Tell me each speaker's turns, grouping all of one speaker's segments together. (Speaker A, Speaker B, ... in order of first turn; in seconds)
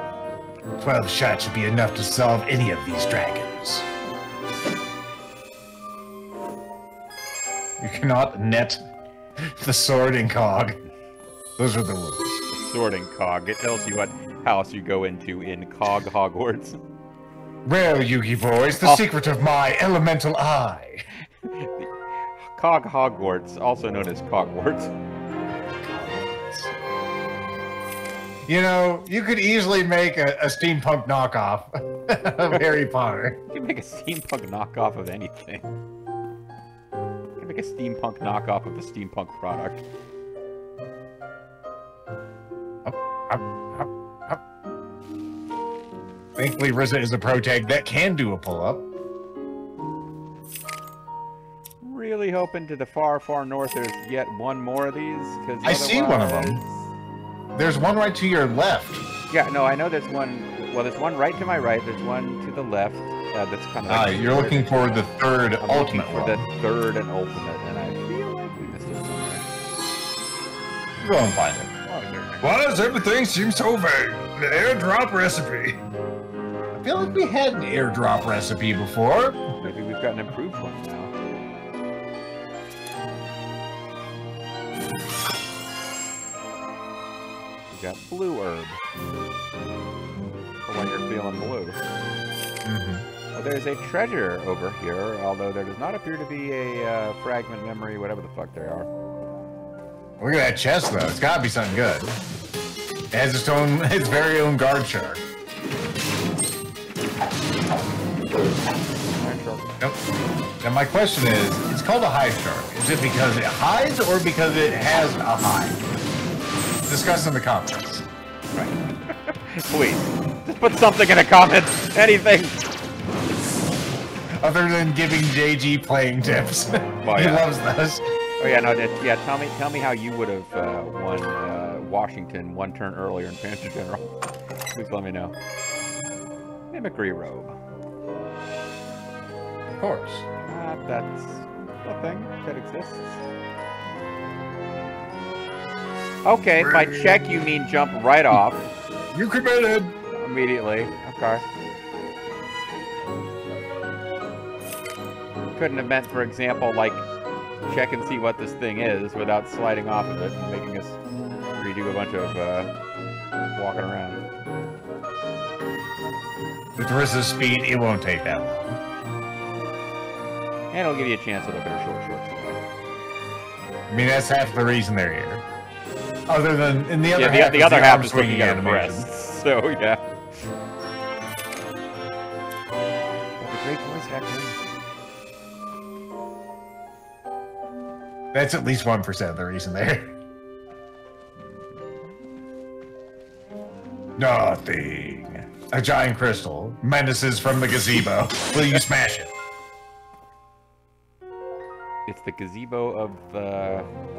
Speaker A: 0.8-3.9, 7.8-8.8, 9.4-10.8, 11.6-12.4, 17.6-21.1, 28.5-33.4, 42.9-44.4, 46.4-48.9, 55.6-56.6, 57.5-59.0, 63.9-66.4, 71.0-71.7, 76.8-79.4, 92.6-93.1, 100.2-102.2, 103.1-105.2, 110.6-115.8, 116.9-118.1, 124.4-128.1, 139.7-140.2, 166.8-168.8, 173.9-175.4, 176.3-179.1, 188.3-190.2, 194.2-199.3
Speaker B: 12.5-16.8, 18.8-19.0, 21.4-24.9, 25.9-26.8, 33.5-35.7, 37.4-39.8, 51.8-56.9, 59.3-64.8, 65.6-69.5, 71.8-72.5, 79.6-81.1, 87.7-88.8, 90.7-91.8, 93.3-98.9, 109.2-109.7, 118.5-122.7, 127.0-127.5, 128.4-134.1, 134.7-135.3, 136.7-137.6, 140.5-143.2, 146.2-148.7, 150.1-151.4, 155.4-157.1, 157.7-161.0, 161.6-162.7, 163.6-164.2, 170.7-172.6, 177.2-180.0, 183.4-184.6, 202.1-203.9
Speaker C: 72.4-75.8, 146.6-147.2, 149.1-149.9